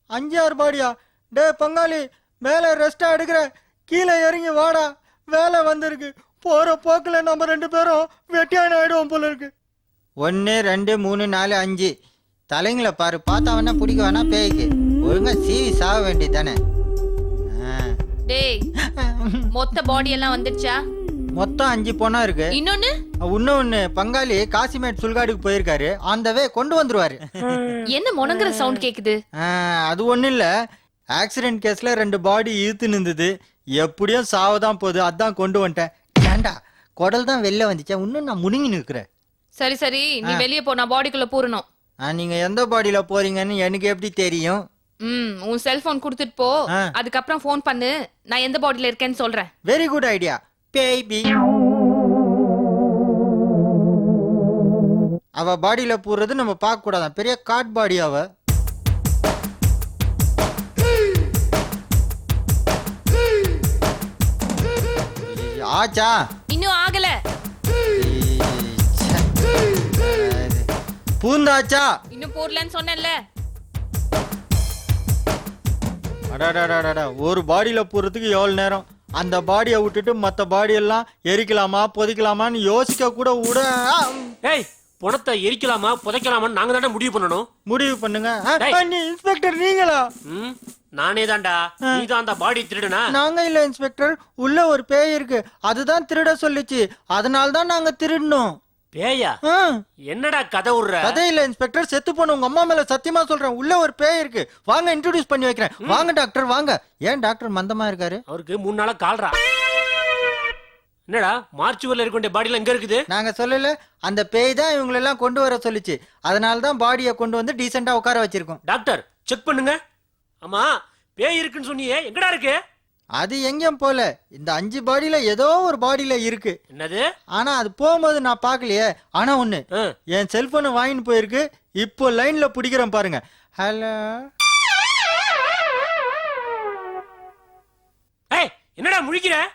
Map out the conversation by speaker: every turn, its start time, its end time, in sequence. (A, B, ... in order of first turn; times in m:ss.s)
0:00.2-0:09.5 A
0:10.2-0:11.9 A
0:12.5-0:16.6 A
0:17.6-0:18.0 A
0:18.3-0:18.6 B
0:19.0-0:19.5 A
0:19.5-0:20.8 B
0:21.4-0:22.5 A
0:22.5-0:22.9 B
0:23.3-0:27.7 A
0:27.9-0:29.2 B
0:29.4-0:30.5 A
0:31.2-0:39.0 A
0:39.6-0:41.6 B
0:42.1-0:44.6 A
0:45.0-0:49.5 B
0:49.7-0:51.3 A
0:55.4-0:58.2 A
1:05.3-1:06.2 A
1:06.5-1:07.2 B
1:08.0-1:10.7 A
1:11.2-1:11.9 A
1:12.1-1:13.2 B
1:16.3-1:24.3 A
1:24.4-1:27.5 C
1:27.7-1:30.0 A
1:30.3-1:33.1 C
1:33.1-1:38.6 A
1:39.0-1:39.4 C
1:39.5-1:39.8 A
1:40.1-1:41.2 C
1:41.0-1:48.2 A
1:48.3-1:49.4 C
1:51.1-1:53.0 C
1:53.1-1:58.6 A
1:58.7-1:59.8 C
2:00.4-2:02.6 C
2:03.2-2:06.6 A
2:06.7-2:07.0 C
2:07.4-2:09.6 A
2:10.2-2:14.2 A
2:18.3-2:19.4 C